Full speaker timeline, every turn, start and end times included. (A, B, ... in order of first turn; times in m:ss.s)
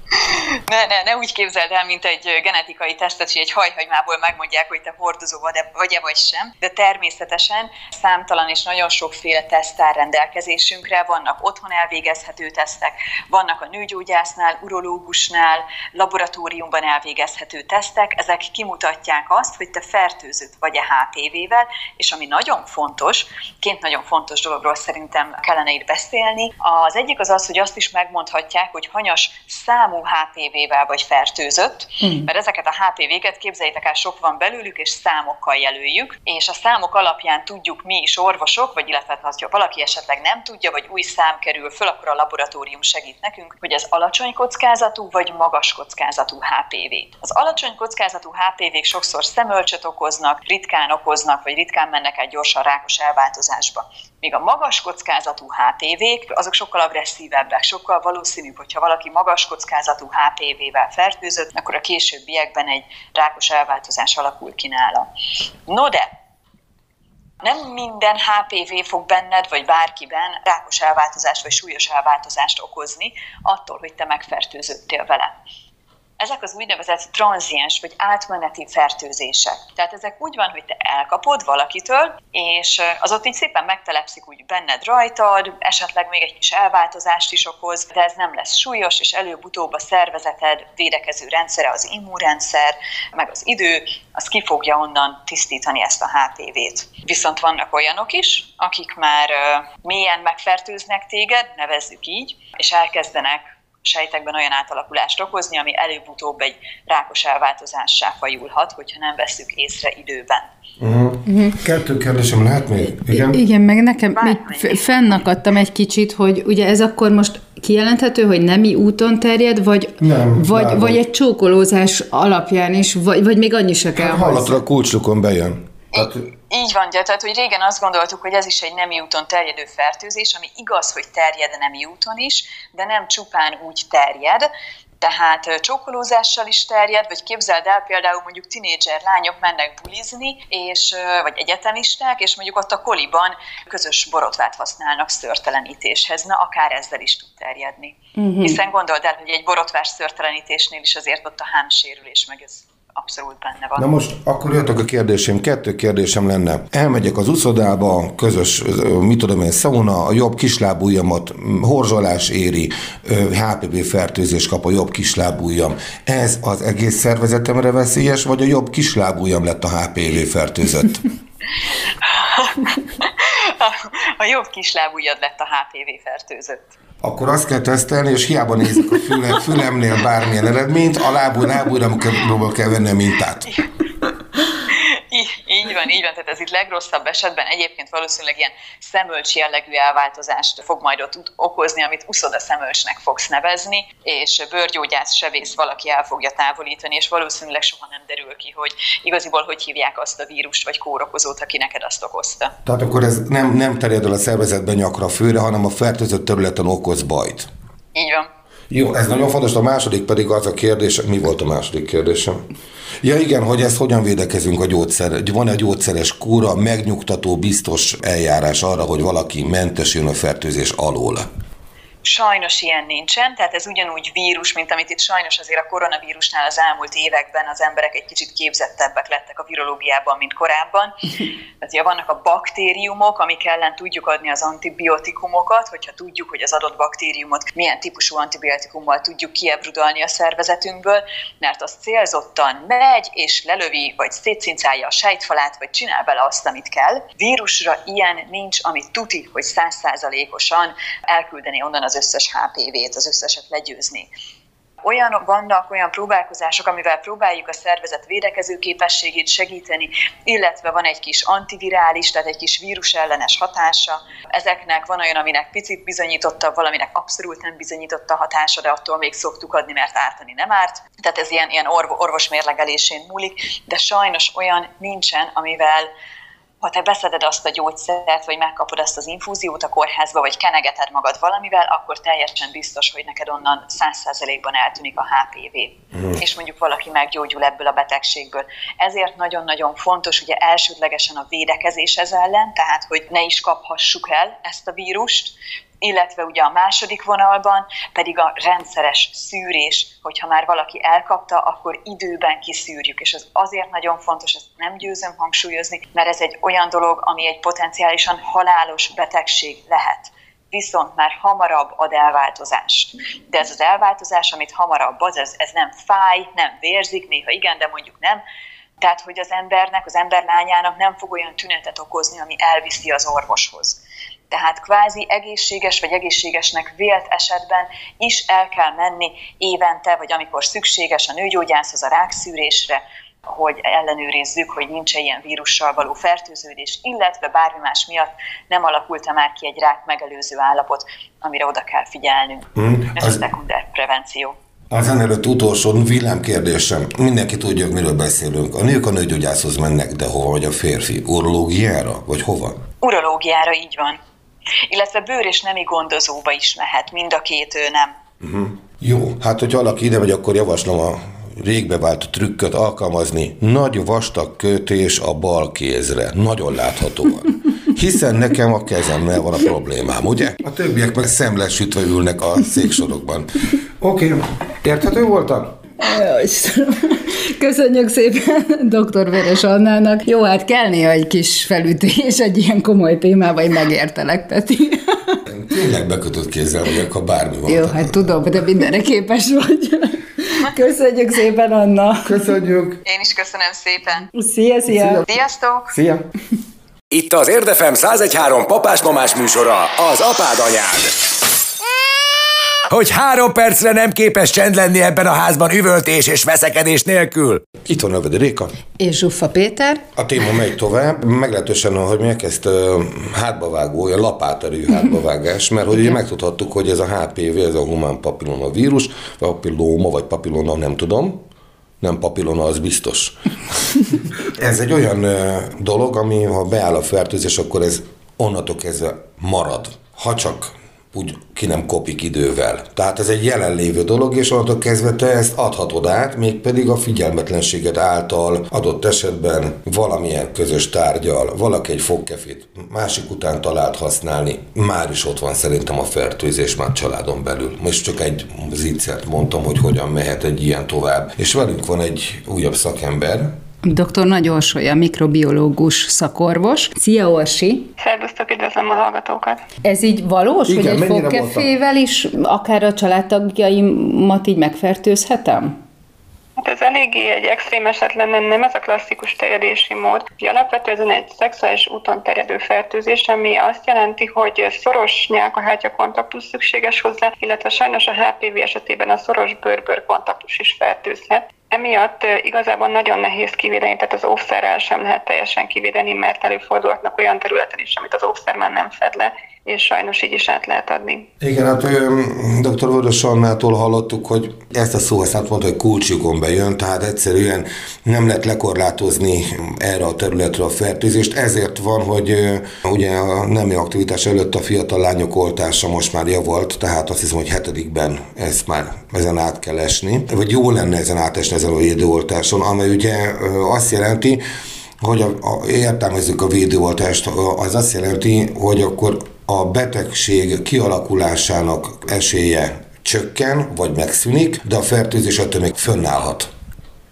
0:00.3-1:05.1 A
0:32.0-0:32.3 B
1:05.7-1:06.1 A
1:07.4-1:15.3 A
1:16.2-1:50.5 A
1:50.8-1:53.4 C
1:51.3-1:51.6 B
1:53.1-2:04.6 B
1:54.2-1:55.1 A
2:00.0-2:01.0 C
2:04.0-2:06.2 C
2:05.9-2:14.5 A
2:15.0-2:33.8 A
2:28.2-2:28.6 B
2:33.8-2:51.0 C
2:52.0-2:56.7 A
2:57.0-3:03.5 C
3:04.7-3:22.5 A
3:22.6-3:27.5 C
3:27.9-3:28.3 A
3:28.7-3:32.4 C
3:33.0-3:41.3 C
3:42.0-3:51.1 A
3:51.6-4:14.1 A
4:14.8-4:35.9 A
4:36.6-5:18.2 A
5:18.8-5:23.8 A
5:24.3-5:44.4 A
5:42.6-5:43.2 C
5:44.7-5:52.6 C
5:52.8-5:54.0 A
5:54.7-5:57.9 A
5:58.2-6:15.5 C
6:15.8-6:25.2 B
6:25.2-6:28.2 C
6:27.5-6:32.4 B
6:32.0-6:32.8 C
6:32.8-6:34.1 A
6:34.1-6:35.0 B
6:34.7-6:35.1 C
6:35.1-6:35.7 A
6:35.7-6:36.1 C
6:36.9-6:40.9 D
6:42.7-6:47.4 D
6:47.6-6:48.5 C
6:48.8-6:49.8 B
6:50.0-7:01.2 C
7:01.8-7:33.3 C
7:33.6-7:37.7 B
7:37.8-7:39.4 E
7:39.6-7:45.6 B
7:40.4-7:41.5 C
7:46.4-8:11.0 E
8:11.2-8:34.2 C
8:34.8-8:46.3 C